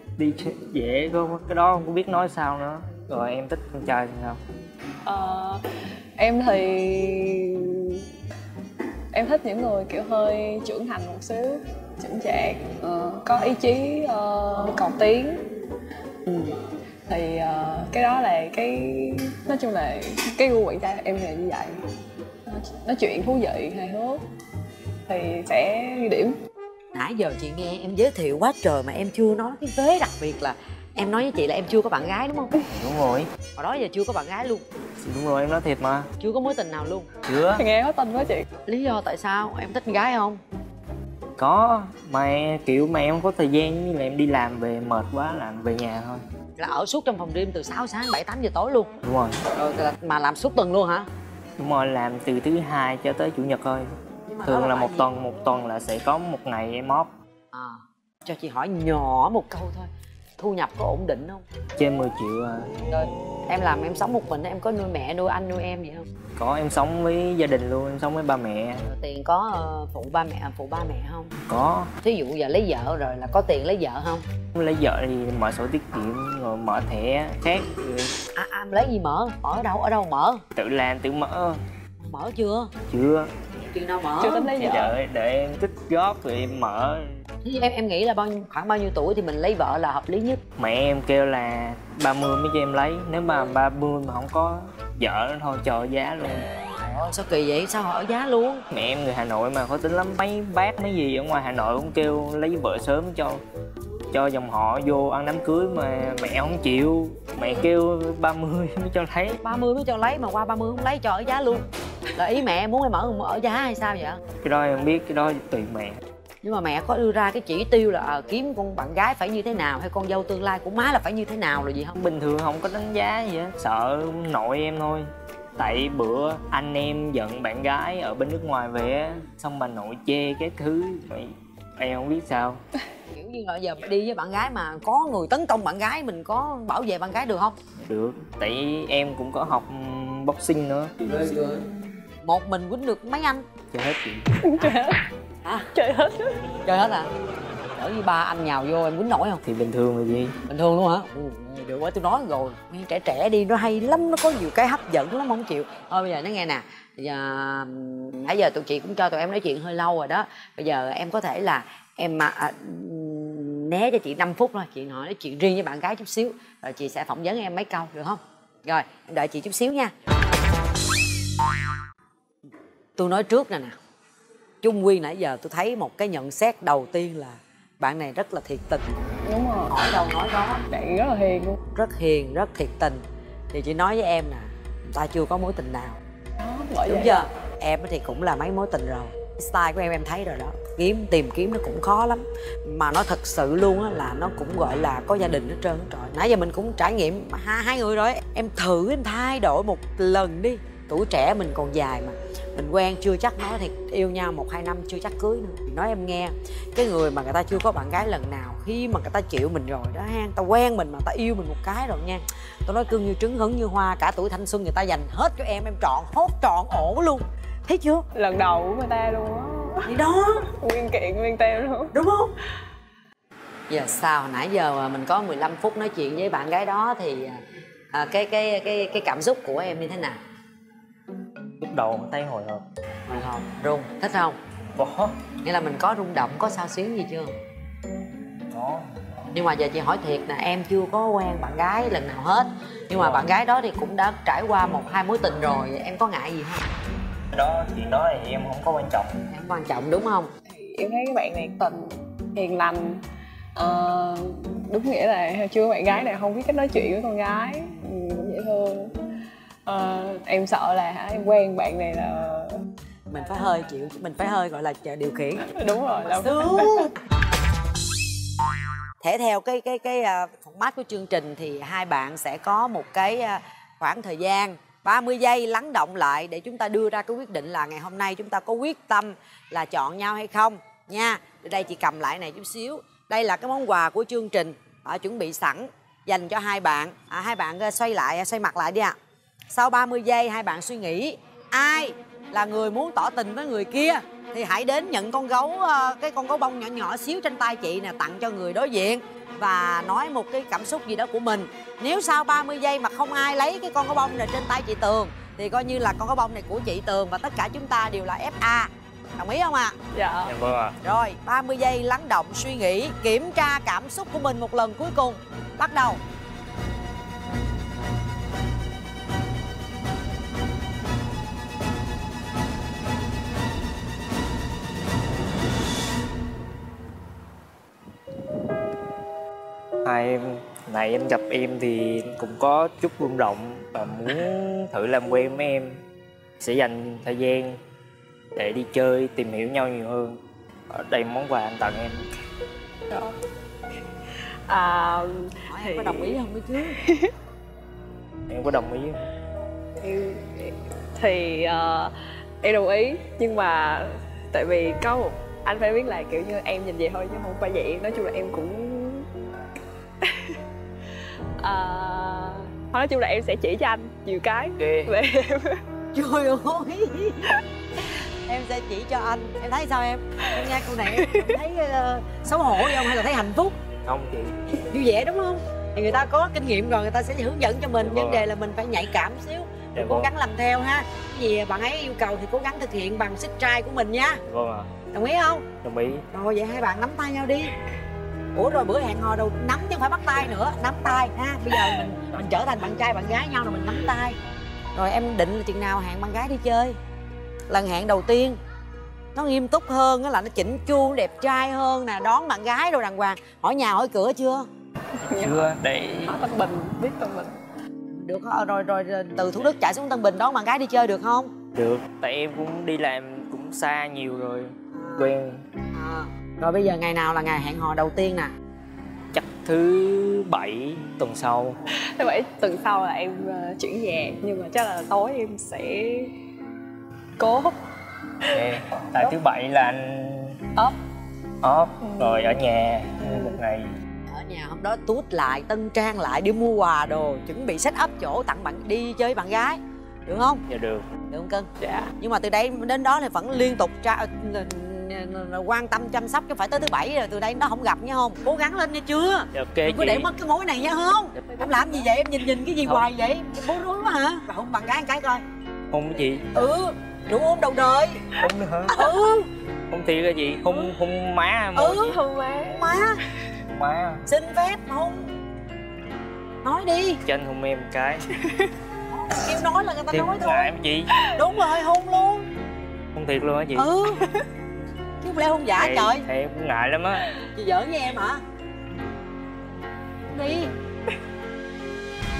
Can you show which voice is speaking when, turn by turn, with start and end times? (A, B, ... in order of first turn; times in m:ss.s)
0:00.2-0:04.4 A
0:05.0-0:05.7 B
0:06.2-0:08.1 B
0:09.1-0:15.5 B
0:16.2-0:21.8 B
0:22.5-0:24.3 B
0:25.1-0:26.4 B
0:26.9-0:32.5 C
0:32.7-0:33.3 A
0:33.6-0:34.6 C
0:35.0-0:36.1 A
0:36.2-0:37.1 C
0:37.2-0:37.6 A
0:37.6-0:38.5 B
0:38.7-0:40.4 C
0:41.4-0:46.2 A
0:46.6-0:48.9 C
0:49.0-0:49.4 A
0:49.5-0:51.1 C
0:51.6-0:53.9 A
0:54.3-0:55.1 C
0:54.4-0:57.1 A
0:57.5-1:01.4 C
1:01.8-1:02.8 A
1:02.9-1:06.1 C
1:06.4-1:08.9 A
1:08.9-1:11.3 C
1:11.4-1:11.9 A
1:12.0-1:14.2 C
1:14.6-1:18.1 A
1:18.4-1:20.4 C
1:20.6-1:21.6 A
1:22.0-1:22.7 C
1:22.9-1:23.3 A
1:23.6-1:24.5 C
1:24.2-1:25.0 B
1:24.5-1:27.2 A
1:27.4-1:30.4 C
1:30.6-1:36.5 A
1:36.8-1:38.6 C
1:38.7-1:43.4 A
1:44.1-1:49.4 A
1:49.4-1:54.2 C
1:54.4-1:56.0 A
1:56.4-2:02.0 C
2:02.0-2:12.6 A
2:13.1-2:17.6 C
2:17.8-2:21.1 A
2:21.1-2:21.6 C
2:22.2-2:23.5 C
2:23.7-2:24.4 A
2:24.4-2:25.1 B
2:25.7-2:26.4 B
2:26.6-2:27.1 C
2:27.8-2:29.4 C
2:29.4-2:30.4 A
2:30.5-2:49.9 C
2:53.0-2:53.8 C
2:54.6-2:58.9 C
2:59.2-2:59.8 B
2:59.7-3:00.6 C
3:00.7-3:01.6 B
3:01.8-3:06.0 C
3:06.4-3:07.3 B
3:06.9-3:38.1 C
3:38.1-3:42.0 B
3:39.8-3:40.5 C
3:41.9-3:42.3 C
3:43.7-3:50.2 C
3:51.6-3:52.7 A
3:53.1-3:54.4 C
3:54.8-3:55.2 A
3:55.4-3:57.3 C
3:58.5-3:58.9 A
3:59.3-4:06.7 C
4:07.3-4:09.2 A
4:09.3-4:10.3 C
4:10.5-4:13.0 B
4:13.6-4:18.9 B
4:19.7-4:22.6 B
4:23.1-4:27.0 C
4:25.5-4:26.9 B
4:29.0-4:49.0 C
4:49.5-5:09.8 C
5:09.9-5:10.3 B
5:10.3-5:10.8 A
5:10.8-5:16.0 C
5:29.8-5:35.8 A
5:36.4-5:37.6 A
5:38.4-5:40.2 A
5:40.7-5:42.1 A
5:44.5-5:46.2 B
5:45.5-5:46.8 C
5:46.8-5:47.1 B
5:48.3-5:49.0 A
5:49.8-5:59.1 B
6:00.0-6:00.4 B
6:01.4-6:05.6 B
6:04.6-6:04.9 A
6:05.9-6:07.3 C
6:08.3-6:13.6 C
6:10.9-6:11.4 B
6:13.8-6:14.4 A
6:14.7-6:24.2 C
6:17.8-6:18.3 A
6:19.7-6:20.1 A
6:24.3-6:24.7 A
6:24.9-6:25.5 C
6:25.6-6:26.1 A
6:26.1-6:27.6 C
6:28.3-6:34.2 C
6:34.7-6:36.8 C
6:37.5-6:38.4 C
6:39.2-6:44.5 C
6:45.0-6:45.5 B
6:45.0-6:46.2 A
6:46.1-6:47.3 B
6:47.9-6:51.3 C
6:51.6-6:55.4 A
6:54.7-6:55.2 C
6:55.7-6:58.3 C
6:59.1-7:01.6 A
7:01.7-7:06.2 B
7:07.2-7:07.6 B
7:08.3-7:10.4 A
7:11.4-7:13.7 A
7:11.8-7:12.2 B
7:14.1-7:20.4 C
7:20.5-7:20.9 A
7:21.1-7:35.2 C
7:21.6-7:21.9 B
7:29.3-7:30.1 A
7:31.2-7:31.7 B
7:35.7-7:36.3 A
7:36.3-7:38.2 C
7:38.2-7:38.9 A
7:38.7-7:39.3 C
7:39.7-7:42.0 A
7:41.6-7:43.0 C
7:41.8-7:42.7 B
7:43.5-7:44.0 A
7:44.1-7:45.1 C
7:46.4-7:47.0 C
7:47.0-7:48.1 A
7:48.2-7:48.5 B
7:48.9-7:50.5 C
7:49.9-7:51.0 A
7:51.2-7:52.3 C
7:53.0-7:53.8 A
7:53.6-7:54.1 C
7:55.0-7:56.1 C
7:55.6-7:57.1 A
7:57.3-7:58.2 C
8:00.1-8:00.5 C